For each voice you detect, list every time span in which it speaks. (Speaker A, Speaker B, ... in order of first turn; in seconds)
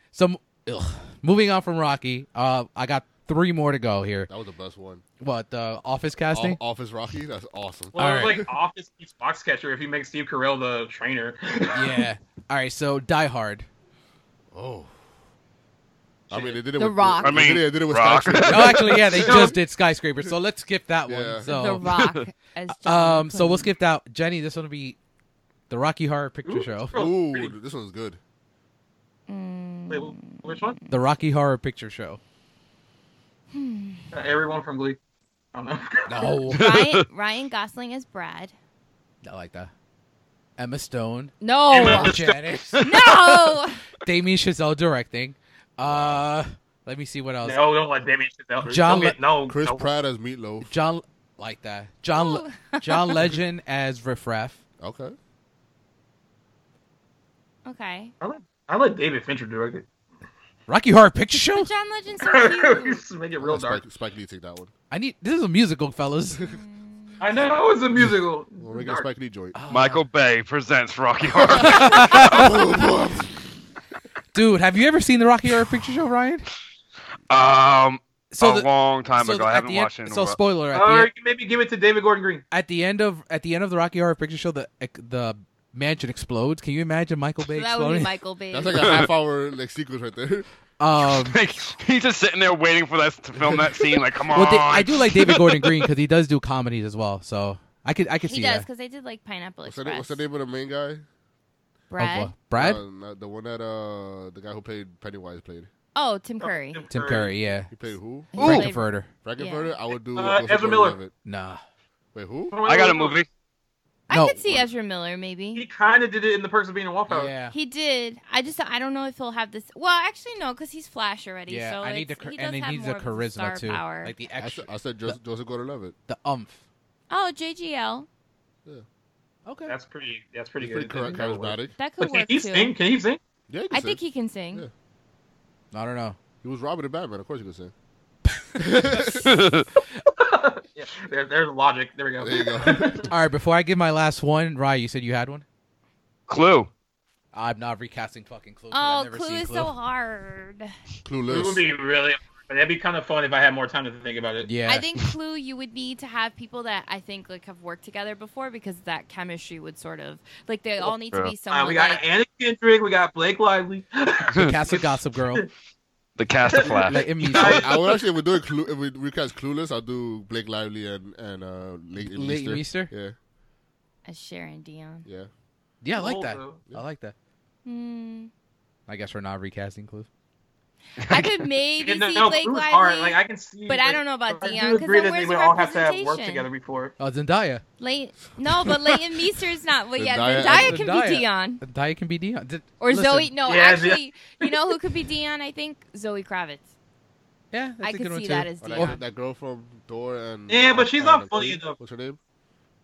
Speaker A: 0.1-4.3, 5.2-6.6, 7.9-8.4, 11.7-13.7, 18.4-21.9, 22.7-25.0, 25.7-26.9, 30.9-32.2, 36.1-36.7, 39.2-39.7, 40.6-47.6, 48.6-49.2, 50.6-54.6, 60.7-61.7, 64.9-66.4, 69.5-70.0, 71.7-72.5, 74.3-76.5, 78.3-81.1, 82.5-88.1, 90.8-91.4, 94.3-98.7, 102.0-102.8, 106.9-107.7, 108.3-109.1, 111.2-111.6, 114.1-114.6, 117.1-117.5, 121.5-125.2, 126.1-126.6, 129.4-129.8, 135.7-136.2, 138.6-139.2, 143.1-145.4, 147.3-149.7, 154.4-154.9, 164.3-165.4, 166.8-167.7, 172.0-172.9, 175.8-177.1, 178.9-180.1, 187.0-187.6, 190.4-193.3, 197.5-199.0
Speaker B: 4.3-5.0, 6.3-8.4, 14.5-14.9, 16.3-19.6, 21.1-21.5, 26.9-28.2, 45.8-46.2, 49.5-50.7, 54.8-55.1, 63.4-64.7, 68.6-69.5, 71.5-73.3, 88.5-90.5, 99.6-101.0, 102.5-105.7, 107.7-108.7, 109.2-111.1, 112.1-112.5, 124.4-125.9, 130.6-131.7, 133.5-134.0, 136.4-137.7, 138.6-139.3, 142.2-143.1, 151.0-151.6, 167.3-173.2, 175.0-175.3, 189.9-190.8, 198.6-202.2
Speaker C: 7.9-12.1, 19.1-19.6, 26.4-27.5, 29.9-30.8, 34.1-35.0, 35.5-36.3, 41.7-42.6, 47.4-49.9, 58.2-59.9, 62.2-63.8, 67.2-69.1, 80.7-82.4, 106.4-107.3, 110.1-111.0, 112.5-113.2, 115.5-117.4, 129.7-133.2, 140.1-143.1, 151.3-154.5, 161.5-165.5, 166.5-168.0, 175.9-176.6, 181.8-186.9, 193.4-194.7, 200.5-201.8
Speaker D: 16.7-17.5, 21.4-23.7, 29.3-31.0, 33.5-34.1, 36.5-38.5, 41.4-42.2, 42.8-43.8, 52.1-53.3, 57.6-58.1, 61.4-63.0, 66.4-67.2, 87.5-89.0, 98.2-100.2, 101.9-102.3, 105.9-106.8, 108.3-109.7, 114.1-115.6, 117.5-124.1, 127.1-128.1, 131.7-132.7, 133.7-134.7, 148.7-150.7, 154.6-162.0, 174.0-175.1, 177.6-178.3, 181.0-186.5, 187.8-191.6, 192.8-196.7, 197.8-199.0
Speaker E: 17.2-19.0, 21.9-22.2, 36.5-37.0, 69.7-72.6, 77.3-80.4, 88.7-89.0, 91.1-95.9, 112.6-113.3, 139.2-139.7, 146.3-146.7, 166.2-167.1, 181.1-181.4